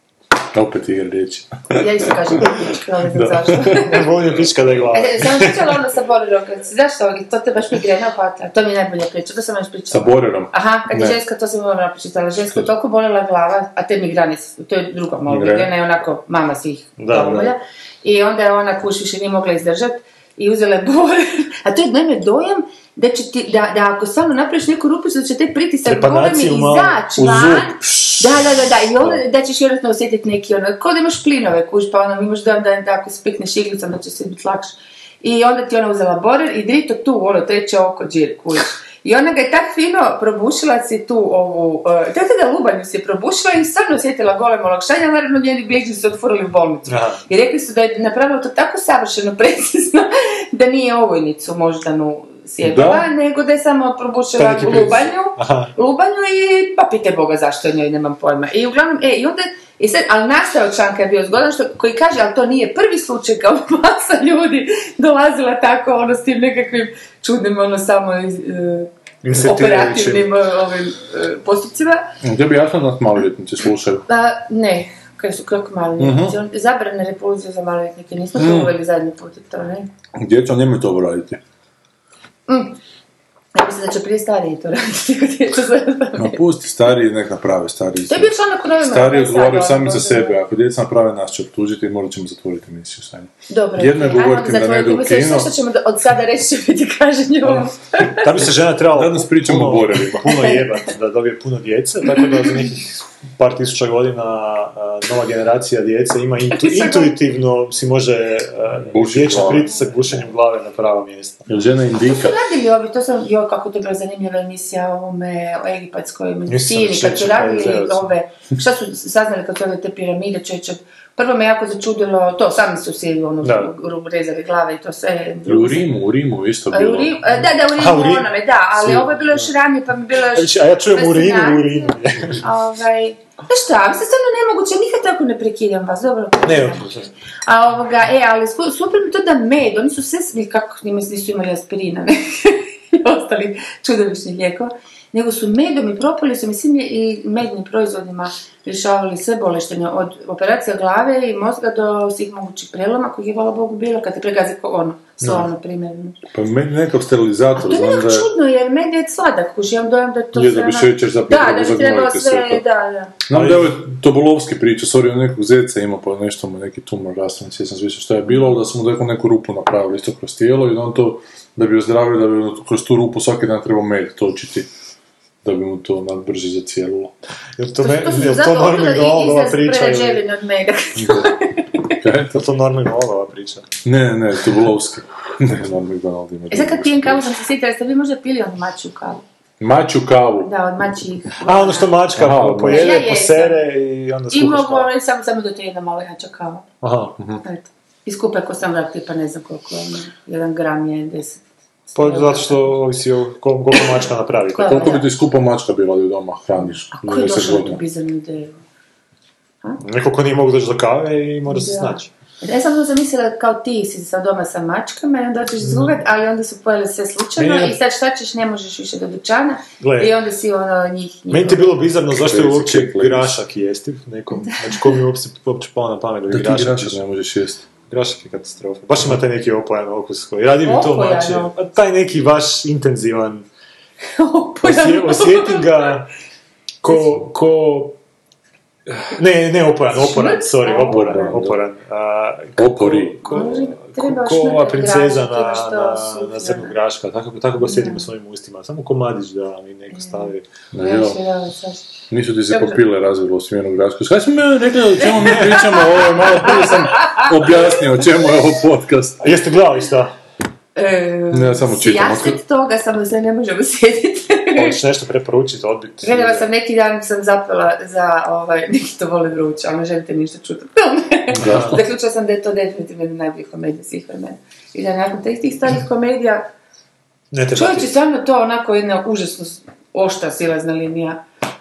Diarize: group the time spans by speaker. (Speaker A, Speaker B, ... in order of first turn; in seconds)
Speaker A: 0.5-2.5, 3.1-3.9, 9.9-11.2, 15.3-15.7, 27.2-29.2, 52.6-53.1, 72.2-74.1, 76.0-76.4, 78.4-78.7, 80.2-81.4, 86.2-95.5, 98.9-100.3, 108.8-109.7, 111.5-112.4, 125.5-127.2, 156.3-158.3, 160.3-162.6, 163.3-174.7, 175.4-177.1, 181.0-181.3, 182.0-182.4, 183.8-187.2, 189.6-190.5, 192.2-193.0, 197.2-197.4, 204.7-207.8, 222.1-223.4, 226.3-227.7, 240.8-241.6, 242.6-243.2, 250.7-251.2, 252.1-259.2, 261.3-262.4, 271.3-271.8
Speaker B: 1.7-4.0, 4.9-72.2, 74.1-79.9, 82.5-82.8, 83.5-86.4, 88.1-90.4, 93.5-98.5, 100.2-100.6, 102.2-102.4, 106.5-107.1, 109.5-109.8, 112.0-125.9, 126.7-156.2, 157.6-163.2, 177.8-181.9, 186.5-189.2, 190.4-192.0, 192.7-193.6, 194.3-196.7, 197.4-202.8, 204.6-205.1, 206.6-208.6, 211.5-221.9, 224.5-224.8, 230.6-231.6, 234.2-235.9, 239.9-241.3, 243.3-246.8, 247.6-248.1, 249.9-251.9, 252.5-252.8, 257.0-257.3, 260.8-264.8, 266.0-276.5, 277.5-281.2
Speaker C: 3.7-5.8, 17.0-17.5, 25.9-27.0, 46.9-47.2, 54.4-55.7, 69.2-70.3, 97.5-111.5, 116.5-118.1, 123.4-123.7, 127.7-129.5, 130.3-132.4, 136.5-137.1, 155.2-155.5, 163.3-163.7, 177.6-180.2, 182.3-183.7, 191.4-194.9, 196.8-197.2, 202.0-205.0, 209.8-212.1, 215.6-216.0, 217.4-217.8, 219.8-220.2, 221.3-227.0, 227.9-233.4, 234.6-236.1, 236.8-238.0, 238.9-250.4, 259.2-260.1, 264.6-266.5, 271.4-271.8, 277.3-277.9